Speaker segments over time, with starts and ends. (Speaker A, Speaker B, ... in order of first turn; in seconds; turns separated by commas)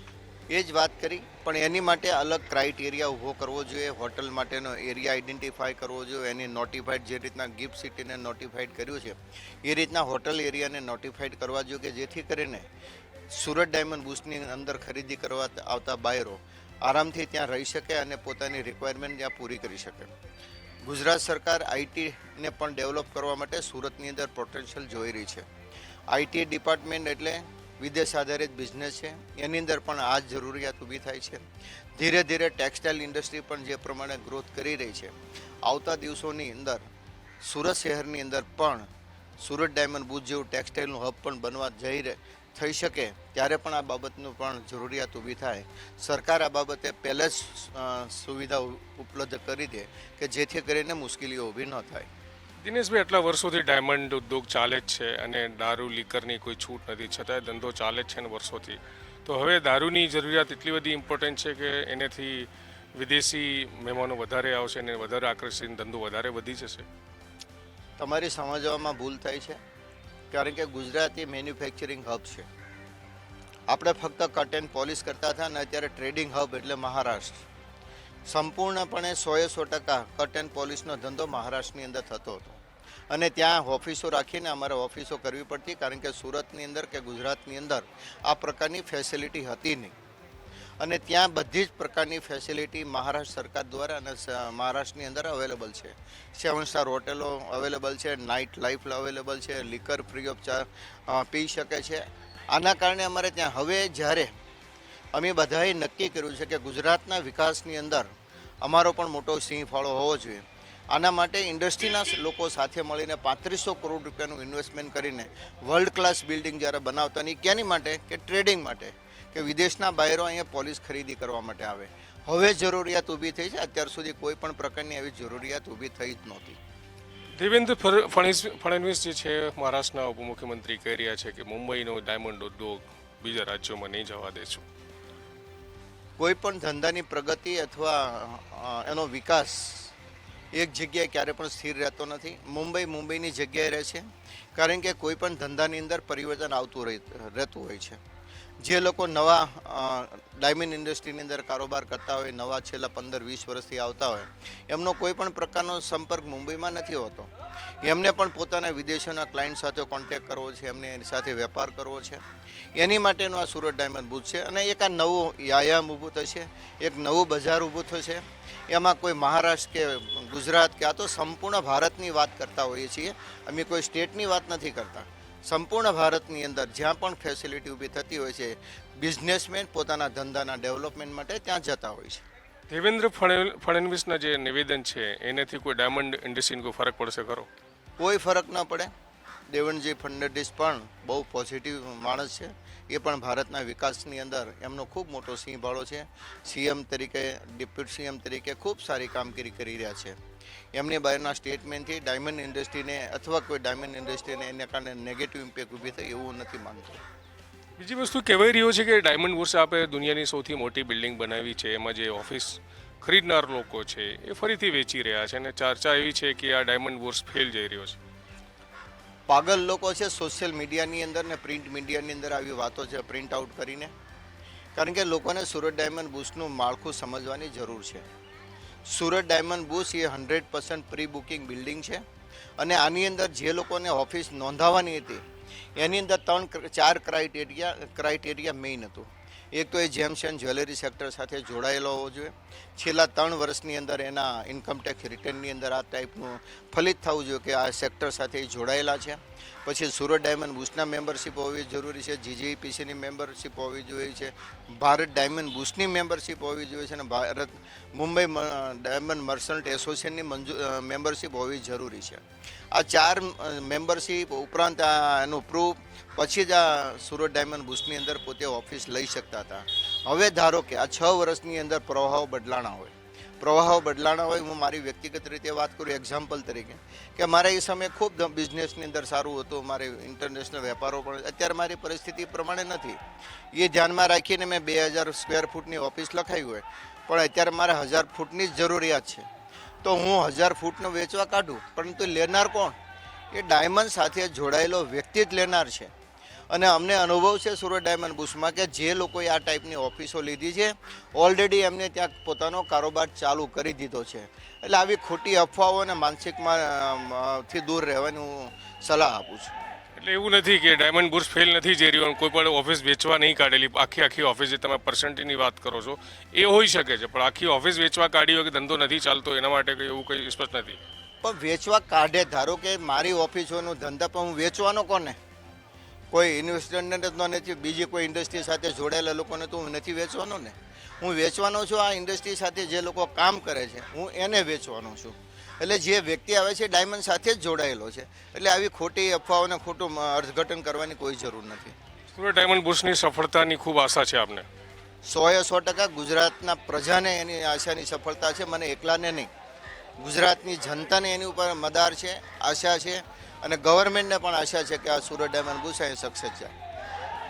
Speaker A: 0.5-12.7, Speaker A: 13.3-20.1, Speaker A: 20.8-25.4, Speaker A: 26.1-31.4, Speaker A: 31.9-36.9, Speaker A: 37.4-38.9, Speaker A: 39.4-52.1, Speaker B: 52.6-66.9, Speaker A: 68.0-69.6, Speaker A: 70.3-72.5, Speaker A: 73.7-77.4, Speaker A: 78.2-89.9, Speaker A: 90.8-104.3, Speaker A: 105.1-108.1, Speaker A: 108.6-126.6, Speaker B: 127.4-134.6, Speaker A: 136.2-139.9, Speaker A: 140.5-148.0, Speaker A: 148.6-157.3, Speaker A: 157.8-162.2, Speaker A: 162.8-182.2, Speaker B: 182.7-187.5, Speaker A: 188.0-188.9, Speaker A: 189.5-200.2, Speaker A: 200.7-207.0, Speaker B: 207.8-218.0, Speaker A: 219.3-223.9, Speaker A: 224.8-228.0, Speaker A: 228.9-232.0, Speaker A: 232.6-235.2, Speaker A: 235.8-283.0, Speaker A: 283.5-289.3, Speaker A: 289.8-292.8, Speaker A: 293.3-295.9, Speaker A: 296.5-309.5, Speaker B: 310.0-320.8, Speaker A: 321.2-325.2, Speaker A: 326.1-341.7, Speaker B: 342.1-344.5, Speaker A: 345.0-349.3, Speaker A: 350.0-356.5